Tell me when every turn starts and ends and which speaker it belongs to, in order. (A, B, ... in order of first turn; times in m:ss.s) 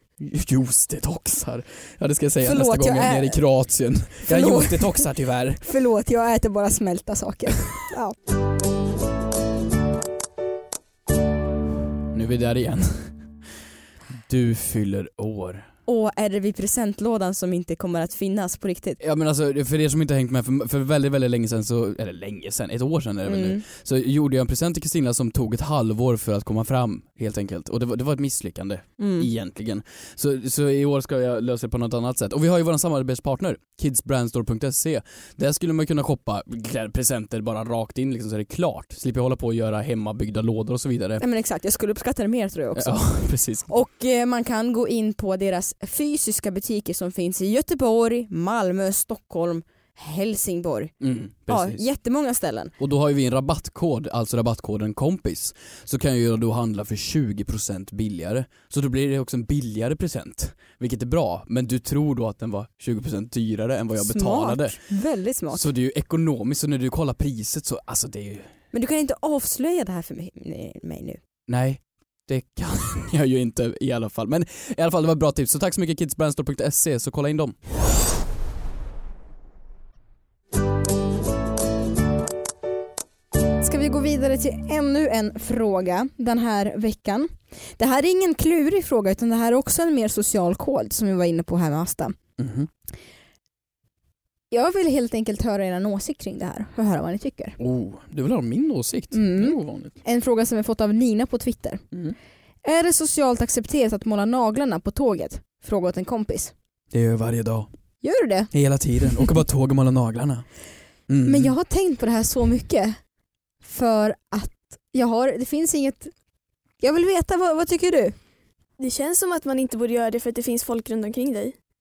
0:00.2-0:05.6 A
0:02.4-0:03.4 B
0:04.2-0:05.1 B
0:05.6-0:08.2 B
0:12.1-0:13.2 A
0:14.1-0:15.7 A
0:15.9-0:19.0 B
0:19.0-0:41.2 A
0:23.2-0:23.6 B
0:29.0-0:29.3 B
0:41.2-0:50.9 B
0:42.8-0:43.7 A
0:51.0-0:51.8 A
0:51.5-0:52.7 B
0:52.8-1:04.8 A
1:04.0-1:05.7 B
1:05.5-1:08.5 A
1:08.7-1:11.2 B
1:11.5-1:17.6 A
1:23.6-1:32.2 B
1:32.4-1:32.7 A
1:34.5-1:37.6 B
1:37.6-1:39.9 A
1:39.1-1:41.8 B
1:42.6-1:46.5 B
1:46.9-1:47.7 A
1:48.0-1:48.5 B
1:48.5-1:50.4 A
1:51.1-1:51.5 A
1:51.2-1:53.0 B
1:53.6-1:56.1 B
1:56.8-1:58.2 B
1:58.8-2:01.6 C